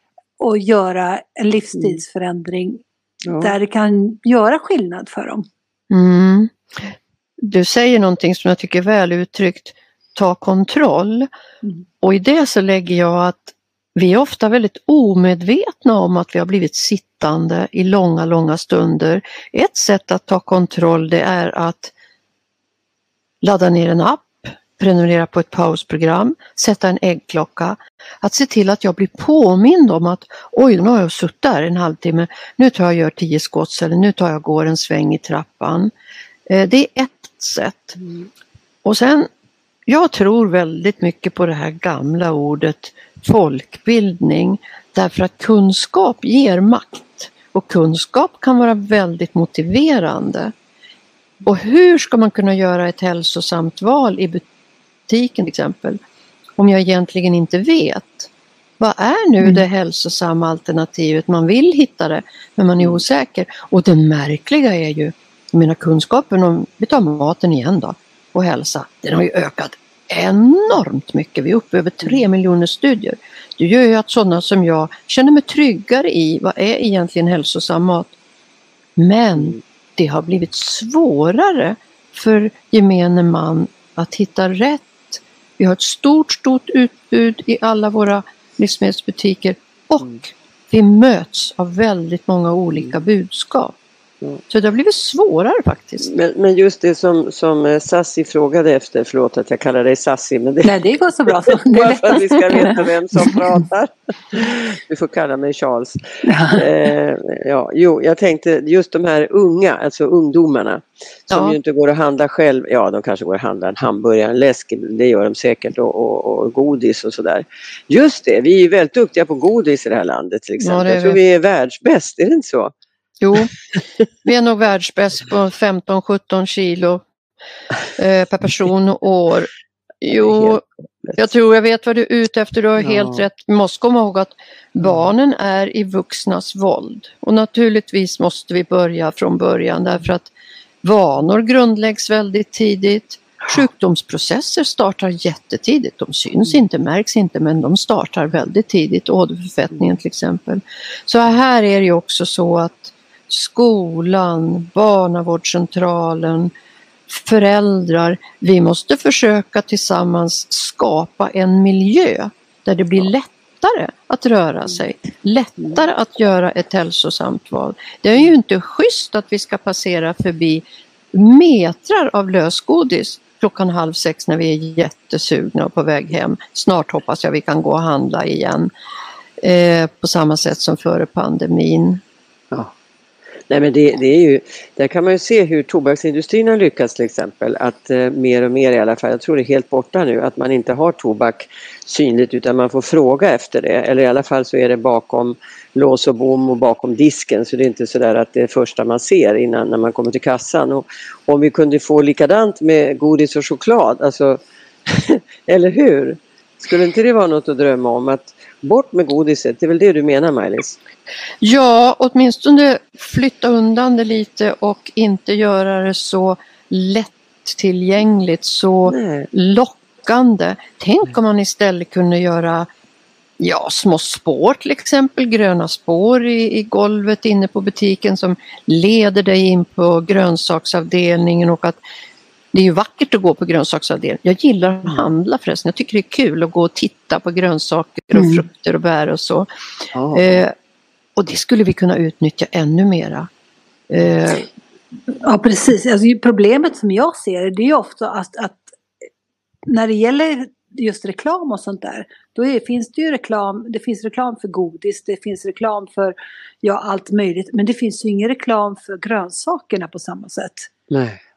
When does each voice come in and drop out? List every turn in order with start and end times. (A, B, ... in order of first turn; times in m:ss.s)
0:00.4-0:02.8 A
0:03.2-0:03.6 B
0:03.4-0:05.5 A
0:05.9-0:11.3 C
0:12.0-0:21.9 C
0:23.4-0:35.9 C
0:36.5-0:38.0 C
0:38.8-0:39.3 C
0:39.9-0:50.5 C
0:51.4-0:54.4 C
0:55.1-0:56.0 C
0:56.6-1:18.1 C
1:19.0-1:33.8 C
1:34.5-1:36.1 C
1:36.0-1:40.7 B
1:40.6-1:43.4 A
1:41.5-2:02.7 B
1:46.3-1:46.6 A
1:51.3-1:51.6 C
2:00.6-2:01.2 C
2:03.2-2:03.5 C
2:04.2-2:07.1 C
2:08.0-2:09.5 C
2:10.0-2:10.6 C
2:10.2-2:11.2 B
2:11.2-2:20.3 C
2:12.8-2:13.2 B
2:20.8-2:36.5 C
2:37.1-2:58.7 C
2:59.4-3:02.0 C
3:03.5-3:30.8 B
3:31.4-3:42.7 C
3:38.9-3:39.3 B
3:43.4-3:51.8 C
3:52.5-3:59.5 C
3:58.2-3:58.4 A
3:59.9-4:00.4 B
4:00.1-4:00.5 C
4:01.2-4:03.3 C
4:03.9-4:04.5 C
4:05.2-4:08.7 A
4:09.7-4:20.7 A
4:20.9-4:21.2 B